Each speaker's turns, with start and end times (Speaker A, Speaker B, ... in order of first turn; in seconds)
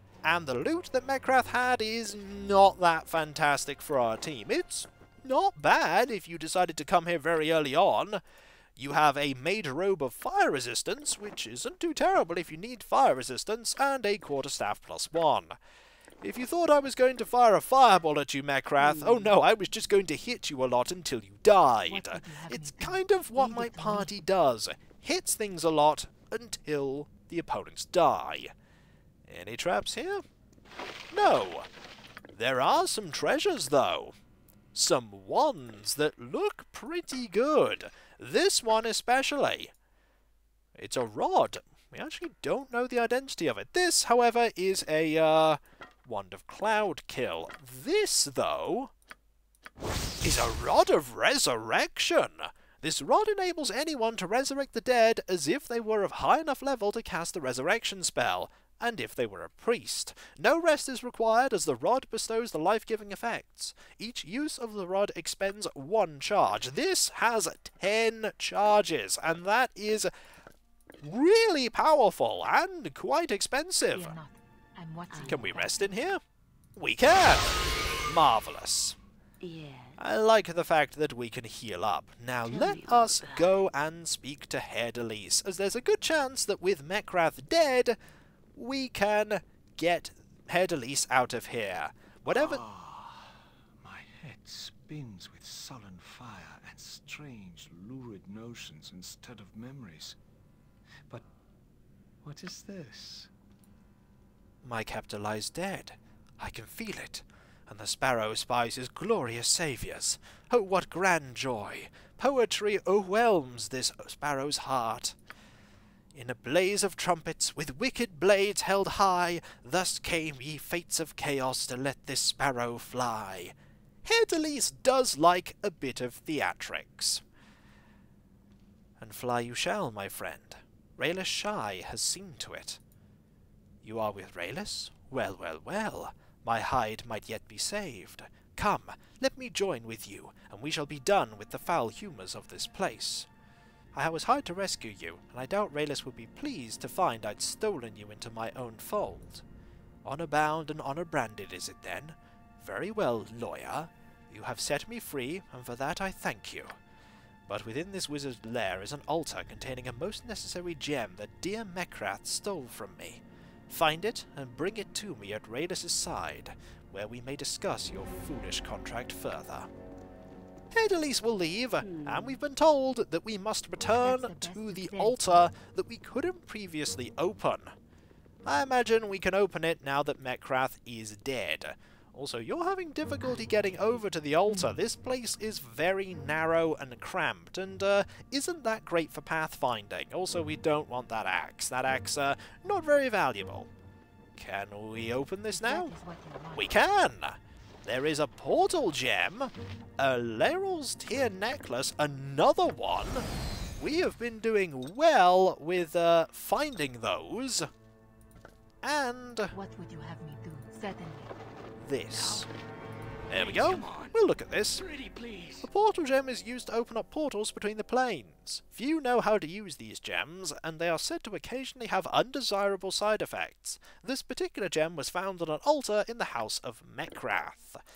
Speaker A: 0.2-8.2, 8.8-15.6, 16.2-28.5, 29.3-30.2, 31.1-31.7, 32.3-34.2, 34.7-39.7, 40.8-48.9, 50.2-70.1, 71.0-74.2, 75.2-76.2, 76.8-79.0, 80.0-88.0, 88.5-92.6, 104.6-115.2, 116.1-127.2, 129.0-132.8, 133.8-143.3, 143.9-149.4, 150.1-156.8, 157.5-169.7, 170.7-177.8, 178.4-193.7, 194.3-195.9, 196.6-203.3, 203.8-207.7, 208.8-209.5, 211.8-212.5, 213.3-214.8, 215.6-227.8
Speaker B: 18.8-19.4, 75.1-75.5, 79.4-80.0, 82.5-83.7, 171.8-172.4
Speaker C: 21.9-24.1, 73.9-76.1, 174.0-175.5, 195.5-196.7, 209.5-211.3
Speaker D: 92.3-100.2, 102.2-103.3, 212.1-212.5, 213.3-214.2, 214.8-215.7